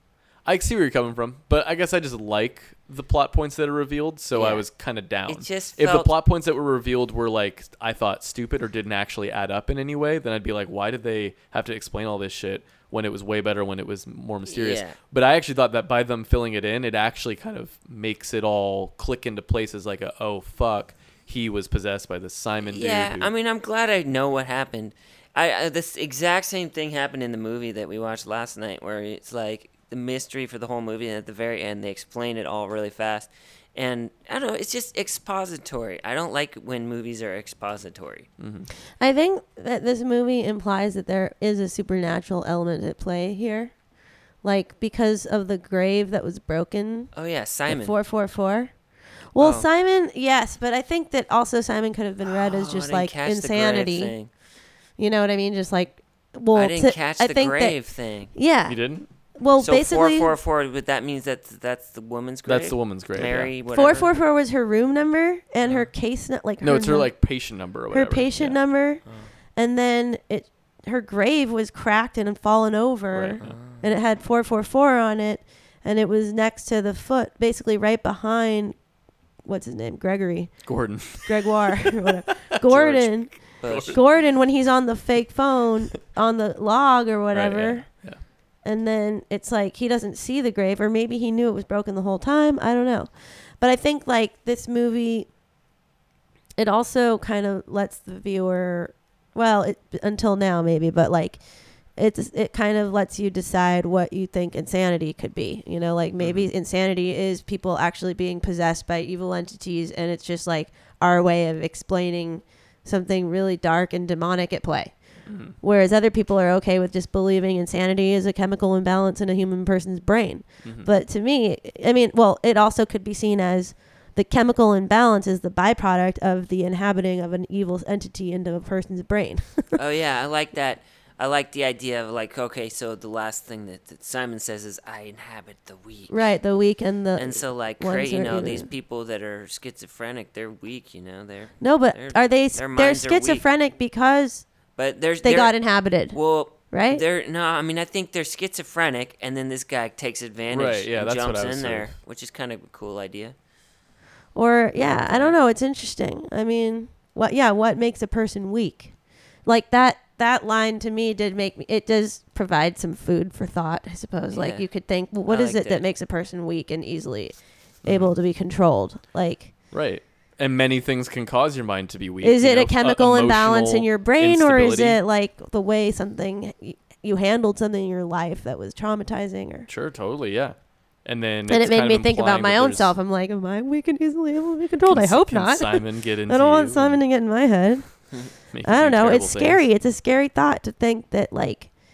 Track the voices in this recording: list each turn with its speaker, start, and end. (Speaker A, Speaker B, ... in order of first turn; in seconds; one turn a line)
Speaker A: 0.4-23.3
Speaker B: 4.3-4.6
Speaker B: 5.3-6.1
Speaker B: 14.5-15.0
Speaker B: 22.6-38.3
Speaker A: 38.4-38.7
Speaker C: 39.0-43.7
Speaker C: 44.4-47.1
Speaker B: 47.1-47.9
Speaker C: 47.6-48.7
Speaker C: 49.3-54.1
Speaker B: 49.4-49.7
Speaker B: 52.2-54.3
Speaker C: 55.0-58.8
Speaker B: 56.5-58.3
Speaker A: 58.6-59.1
Speaker C: 59.3-60.3
Speaker B: 59.6-64.1
Speaker A: 62.4-63.5
Speaker C: 63.7-67.1
Speaker A: 66.6-68.6
Speaker C: 67.9-69.0
Speaker C: 69.5-78.8
Speaker A: 73.1-73.6
Speaker B: 73.4-73.9
Speaker C: 79.4-80.5
Speaker A: 80.6-84.0
Speaker C: 81.2-87.9
Speaker B: 83.6-84.0
Speaker A: 87.3-88.2
Speaker C: 88.6-95.3
Speaker C: 96.6-101.4
Speaker C: 101.9-115.0
Speaker A: 106.2-106.5
Speaker A: 115.2-115.6
Speaker C: 115.6-129.8
Speaker A: 120.6-120.9
Speaker B: 129.7-136.3
Speaker C: 136.1-138.7
Speaker B: 137.2-143.4
Speaker C: 141.6-144.4
Speaker B: 144.8-153.3
Speaker C: 145.2-146.2
Speaker C: 146.7-147.0
Speaker A: 150.5-151.9
Speaker C: 154.3-158.9
Speaker B: 154.9-155.3
Speaker C: 159.4-169.5
Speaker B: 164.3-164.7
Speaker B: 165.3-165.8
Speaker A: 167.8-168.1
Speaker A: 169.7-175.0
Speaker C: 172.2-179.7
Speaker A: 179.7-182.9
Speaker C: 181.5-188.1
Speaker A: 184.8-187.0
Speaker A: 188.5-189.6
Speaker C: 188.6-191.7